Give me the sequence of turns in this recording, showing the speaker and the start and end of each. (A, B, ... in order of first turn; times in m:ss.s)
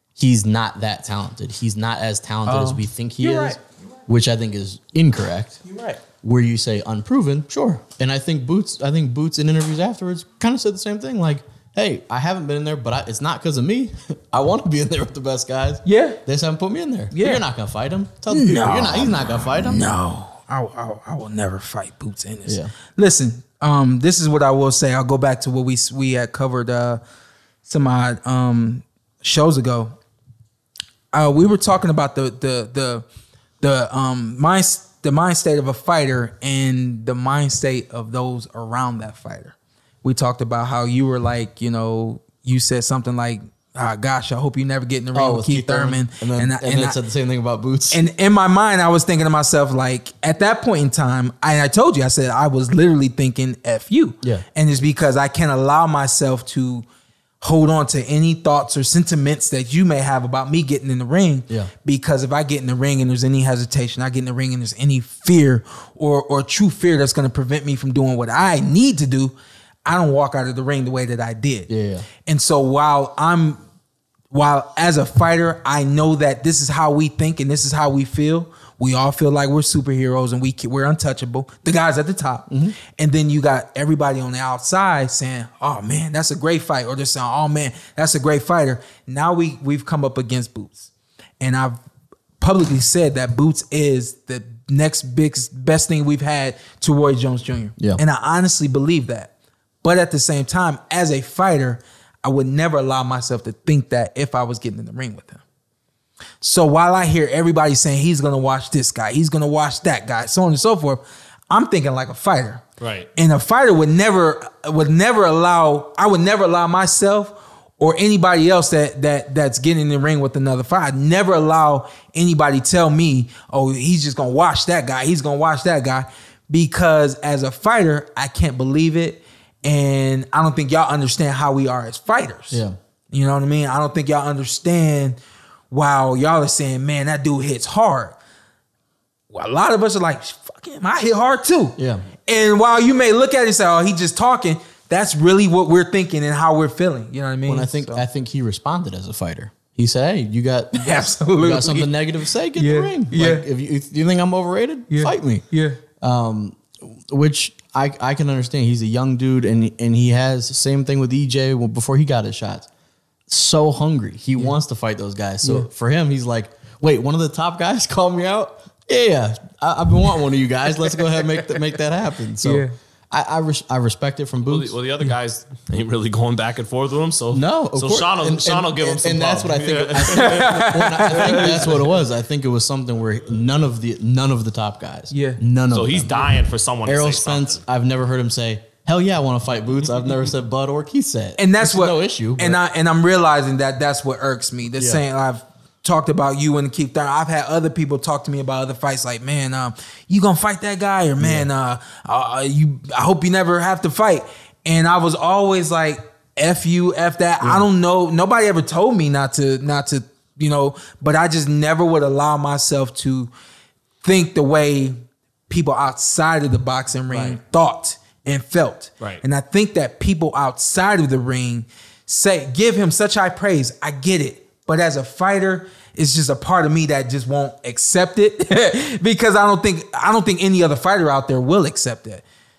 0:00.2-0:05.6 A
0:02.5-0:03.6 B
0:05.6-0:06.0 B
0:06.2-0:19.9 A
0:15.8-0:16.2 B
0:17.1-0:17.4 B
0:18.3-0:27.0 B
0:22.5-0:22.7 A
0:27.6-0:29.9 B
0:31.1-0:33.1 B
0:33.6-0:47.0 B
0:45.1-0:48.0 A
0:47.9-0:56.8 B
0:57.4-1:09.3 B
1:09.8-1:11.7 B
1:11.7-1:12.1 A
1:12.2-1:13.6 B
1:14.3-1:31.8 B
1:22.5-1:22.8 A
1:32.4-1:39.3 B
1:39.8-1:45.4 B
1:46.4-1:52.6 B
1:52.8-1:53.1 C
1:53.2-2:15.2 B
2:12.5-2:12.8 A
2:15.7-2:18.2 B
2:19.3-2:28.0 B
2:21.8-2:22.1 A
2:27.5-2:35.4 A
2:30.8-2:31.9 B
2:32.6-2:33.5 B
2:34.9-2:35.8 B
2:36.0-2:42.7 A
2:43.3-2:54.8 A
2:45.4-2:45.7 B
2:52.4-2:52.7 B
2:54.4-3:01.7 C
2:57.3-3:06.3 A
3:00.1-3:01.7 B
3:05.1-3:05.4 B
3:05.7-3:07.6 C
3:06.8-3:12.6 A
3:11.4-3:33.3 B
3:14.8-3:15.0 A
3:21.2-3:21.5 A
3:27.4-3:27.6 A
3:34.0-3:52.2 B
3:37.1-3:37.4 A